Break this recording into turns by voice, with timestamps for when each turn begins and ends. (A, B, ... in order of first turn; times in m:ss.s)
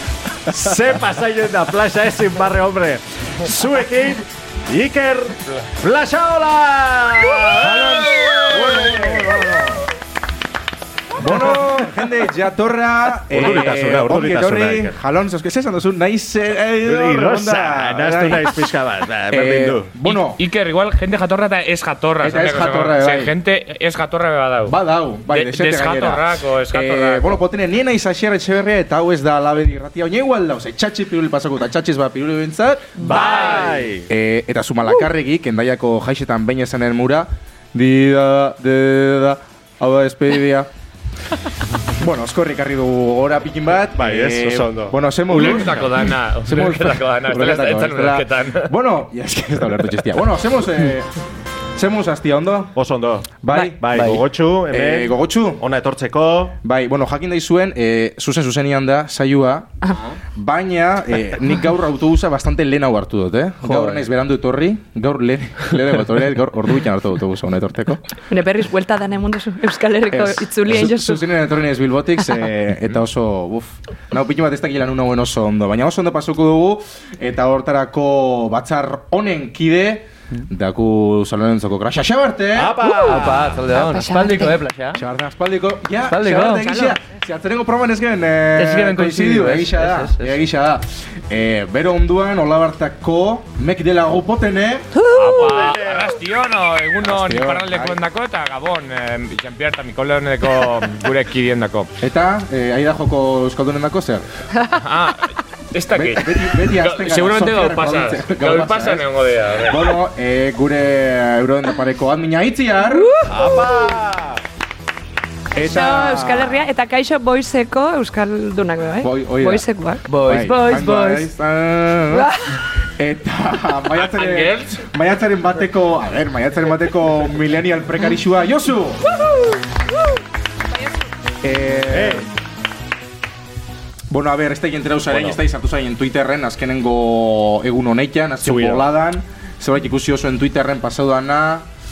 0:00.5-0:09.5 A
0:07.6-0:09.8 B
0:11.2-0:18.7 B
0:13.3-0:15.0 A
0:16.8-0:19.9 A
0:19.3-0:20.4 B
0:20.0-0:24.8 C
0:22.2-0:23.4 B
0:24.7-0:40.7 B
0:25.3-0:27.4 C
0:33.0-0:34.1 A
0:33.1-0:33.7 D
0:42.0-0:51.1 B
0:43.9-0:45.0 A
0:45.3-0:48.7 C
0:51.8-0:52.8 B
0:52.8-0:56.6 A
0:53.4-0:55.6 B
0:53.5-0:54.2 E
0:56.6-1:08.1 B
1:03.6-1:04.0 E
1:08.3-1:11.2 D
1:10.1-1:22.8 B
1:22.5-1:23.5 A
1:22.8-1:24.6 D
1:23.0-1:25.0 E
1:25.0-1:34.9 B
1:26.1-1:26.8 E
1:26.6-1:27.0 D
1:28.6-1:30.3 E
1:35.0-1:35.7 D
1:35.1-1:41.9 C
1:35.6-1:36.1 A
1:37.0-1:38.0 B
1:42.0-1:44.3 B
1:44.8-1:50.0 C
1:46.0-1:49.1 B
1:49.7-1:53.2 B
1:52.9-1:53.9 D
1:53.3-1:54.4 A
1:55.5-1:56.6 B
1:55.6-2:00.0 D
1:59.0-2:02.3 B
2:00.1-2:01.3 E
2:02.1-2:02.6 D
2:03.0-2:09.0 B
2:04.0-2:04.8 C
2:11.4-2:12.3 B
2:11.9-2:12.3 A
2:14.1-2:21.7 B
2:15.1-2:15.4 A
2:18.4-2:18.9 A